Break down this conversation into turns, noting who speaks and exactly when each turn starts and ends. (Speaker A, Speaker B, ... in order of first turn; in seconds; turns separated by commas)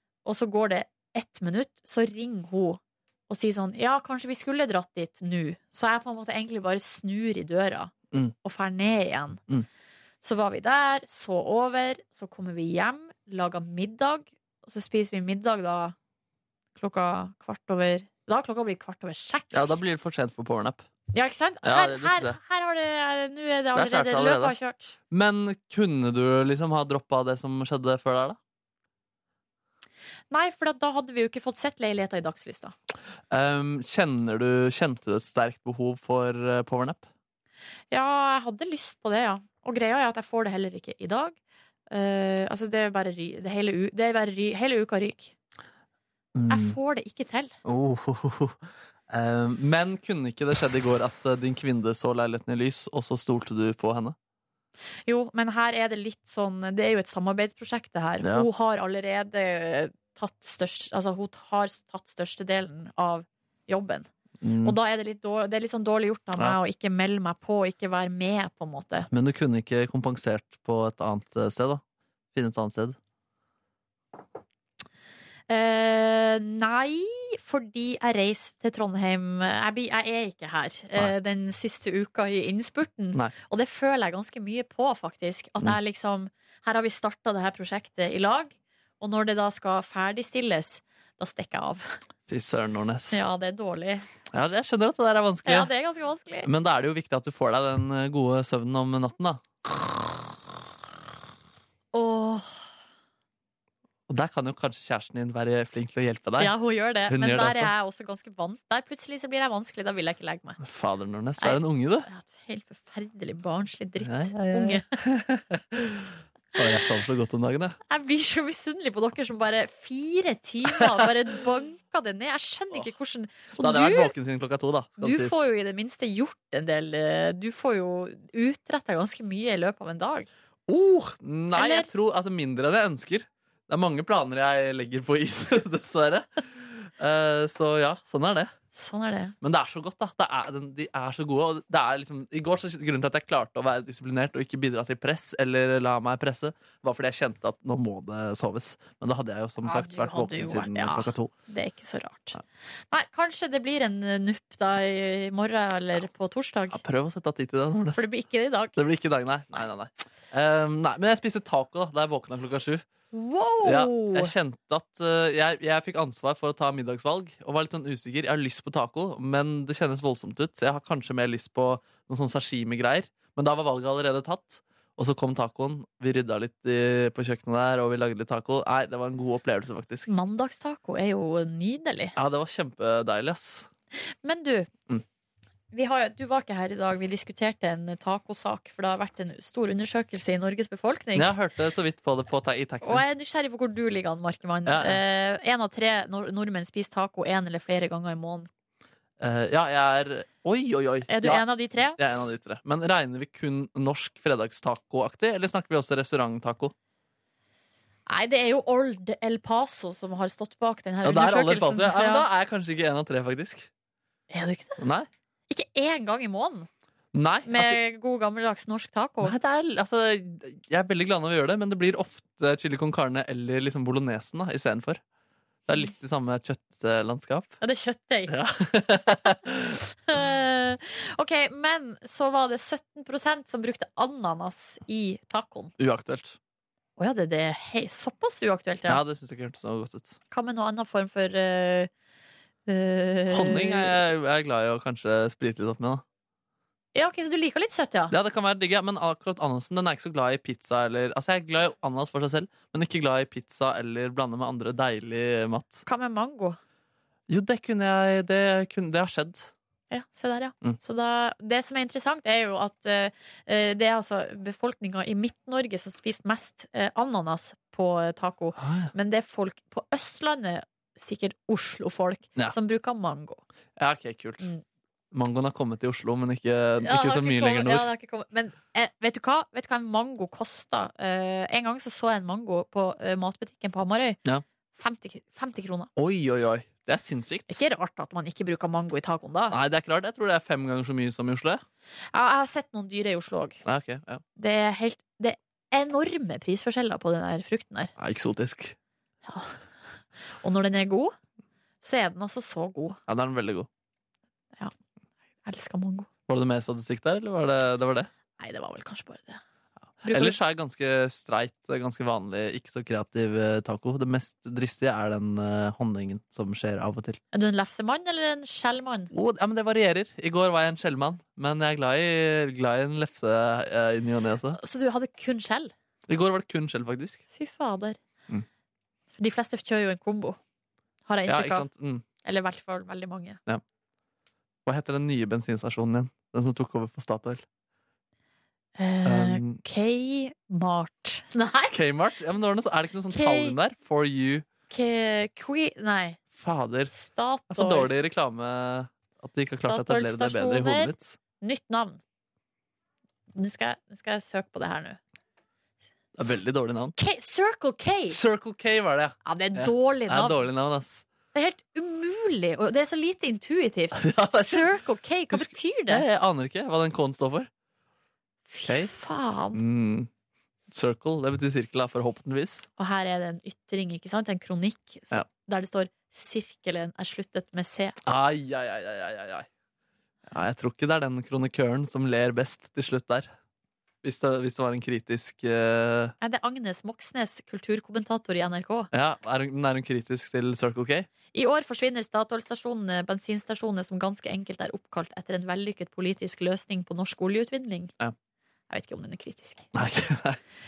Speaker A: 0.2-7.9, Speaker A: 8.4-9.4, Speaker A: 10.2-15.9, Speaker A: 16.8-19.8, Speaker B: 19.5-20.9, Speaker A: 21.1-24.9, Speaker B: 21.6-22.4, Speaker B: 23.7-24.5, Speaker B: 25.1-28.4, Speaker A: 30.3-32.7, Speaker B: 33.3-37.0, Speaker A: 37.9-41.4, Speaker A: 41.9-45.3, Speaker B: 46.3-46.8, Speaker A: 46.5-47.5, Speaker B: 47.6-48.6, Speaker B: 49.1-54.1, Speaker A: 55.1-64.1, Speaker B: 58.2-58.5, Speaker B: 64.4-64.8, Speaker A: 64.6-69.1, Speaker B: 69.1-71.8, Speaker B: 72.3-73.0, Speaker A: 75.5-92.0, Speaker B: 92.3-93.2, Speaker A: 93.1-94.0, Speaker B: 94.3-95.7, Speaker A: 95.5-96.5, Speaker B: 96.4-99.4, Speaker A: 101.9-102.5, Speaker B: 104.1-106.5, Speaker A: 106.4-110.6, Speaker B: 107.1-107.7, Speaker B: 110.6-112.1, Speaker A: 111.4-114.8, Speaker B: 114.0-117.8, Speaker A: 117.9-124.1, Speaker B: 123.6-125.5, Speaker A: 125.0-130.3, Speaker B: 130.7-138.5, Speaker A: 131.5-131.9, Speaker A: 138.7-139.3, Speaker B: 139.4-151.3, Speaker A: 149.6-152.4, Speaker A: 152.9-156.8, Speaker B: 156.7-158.0, Speaker A: 157.9-158.7, Speaker B: 158.8-162.8, Speaker A: 163.1-164.3, Speaker B: 163.6-180.1, Speaker A: 180.1-182.1, Speaker B: 182.2-183.7, Speaker A: 184.2-184.7, Speaker A: 185.7-191.3, Speaker B: 191.1-193.0, Speaker A: 192.8-198.5, Speaker B: 194.7-195.0, Speaker B: 199.2-206.7, Speaker A: 201.1-202.0, Speaker A: 208.1-212.2, Speaker B: 211.0-213.7, Speaker A: 214.3-214.8, Speaker B: 214.8-215.1, Speaker A: 215.5-216.7, Speaker B: 217.1-217.8, Speaker A: 217.4-219.3, Speaker B: 219.2-225.0, Speaker B: 225.7-227.6, Speaker A: 227.6-228.3, Speaker B: 228.3-229.8, Speaker A: 230.1-235.7, Speaker B: 235.8-236.4, Speaker A: 237.0-239.0, Speaker B: 238.8-240.2, Speaker A: 240.3-241.9, Speaker A: 242.7-243.9, Speaker B: 243.3-246.0, Speaker A: 246.9-248.1, Speaker B: 248.1-255.8, Speaker A: 255.8-256.6, Speaker B: 257.3-259.5, Speaker A: 259.9-273.4, Speaker B: 268.6-268.9, Speaker B: 273.8-274.5, Speaker B: 275.1-277.9, Speaker A: 276.8-284.2, Speaker A: 284.7-285.9, Speaker B: 286.0-287.6, Speaker A: 287.5-289.6, Speaker B: 289.5-291.6, Speaker A: 292.1-293.6, Speaker B: 293.6-294.2, Speaker A: 294.4-297.9, Speaker B: 298.0-298.8, Speaker A: 299.2-299.6, Speaker A: 300.4-301.1, Speaker A: 301.8-303.0, Speaker B: 303.1-303.7, Speaker A: 305.4-306.1, Speaker B: 306.3-308.1, Speaker A: 308.4-309.4, Speaker A: 310.0-310.4, Speaker B: 310.1-317.2, Speaker A: 317.3-319.1, Speaker B: 319.1-324.6, Speaker A: 324.6-325.7, Speaker B: 326.1-327.2, Speaker A: 327.3-328.0, Speaker A: 329.1-330.4, Speaker A: 331.1-331.7, Speaker B: 331.3-332.0, Speaker A: 332.2-333.4, Speaker B: 334.6-337.4, Speaker A: 338.8-341.7, Speaker B: 339.0-339.6, Speaker B: 341.7-344.4, Speaker A: 343.1-343.6, Speaker A: 344.7-346.2, Speaker B: 346.3-346.9, Speaker A: 346.9-347.9, Speaker B: 347.5-351.1, Speaker A: 349.6-352.0, Speaker A: 353.3-355.0, Speaker B: 356.2-356.9, Speaker A: 357.0-358.2, Speaker B: 358.1-361.0, Speaker A: 359.2-360.4, Speaker A: 361.3-366.0, Speaker B: 363.9-364.7, Speaker B: 365.3-367.5, Speaker A: 368.5-369.6, Speaker B: 368.6-368.9, Speaker B: 369.5-370.1, Speaker B: 370.7-372.7, Speaker A: 372.8-377.9, Speaker B: 378.0-379.5, Speaker B: 380.3-383.3, Speaker B: 384.0-386.1, Speaker A: 386.2-388.9, Speaker B: 388.9-391.1, Speaker A: 391.3-397.9, Speaker A: 398.7-399.7, Speaker B: 399.7-400.4